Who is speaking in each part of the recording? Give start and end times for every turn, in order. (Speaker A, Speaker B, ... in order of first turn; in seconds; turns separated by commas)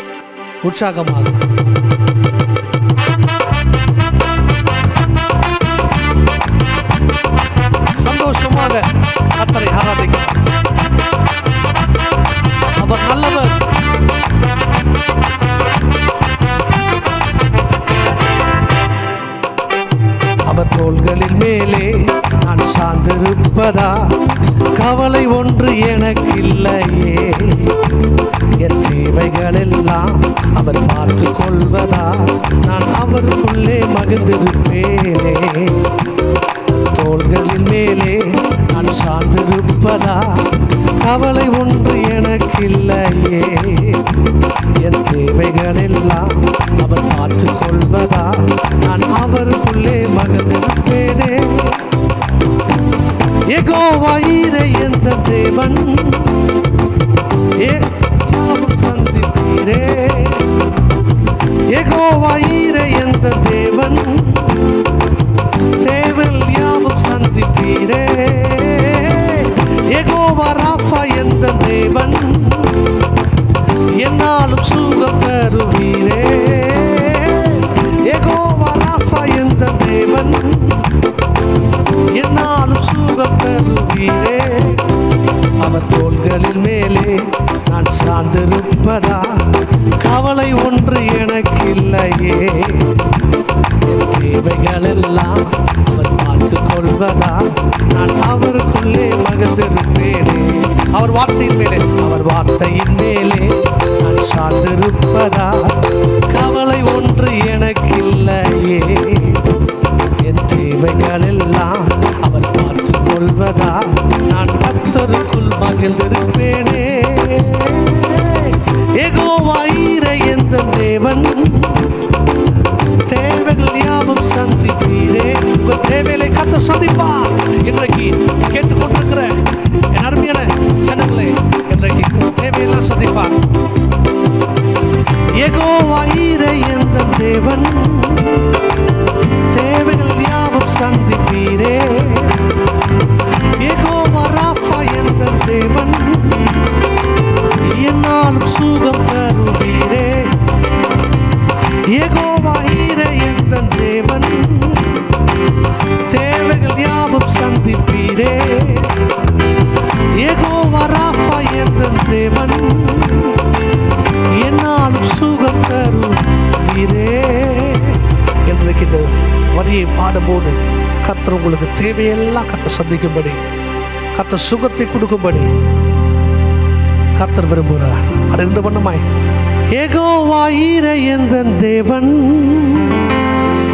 Speaker A: 0.6-1.4, Speaker A: 8.0-8.8, Speaker A: 9.4-10.4, Speaker A: 12.8-13.6, Speaker A: 20.5-24.1, Speaker A: 24.7-27.8, Speaker A: 28.6-35.9, Speaker A: 36.7-44.1, Speaker A: 44.8-51.8, Speaker A: 53.5-56.5, Speaker A: 57.6-60.5, Speaker A: 61.7-64.7, Speaker A: 65.8-72.8, Speaker A: 74.0-80.8, Speaker A: 82.2-84.8, Speaker A: 85.6-89.3, Speaker A: 90.0-92.9, Speaker A: 93.9-109.4, Speaker A: 110.2-121.9, Speaker A: 123.0-129.3, Speaker A: 129.9-133.3, Speaker A: 135.4-138.5, Speaker A: 139.5-142.4, Speaker A: 143.6-146.5, Speaker A: 147.7-150.3, Speaker A: 151.9-155.1, Speaker A: 156.1-158.9, Speaker A: 160.2-163.4, Speaker A: 164.4-173.4, Speaker A: 174.2-175.5, Speaker A: 177.2-179.1, Speaker A: 179.7-183.1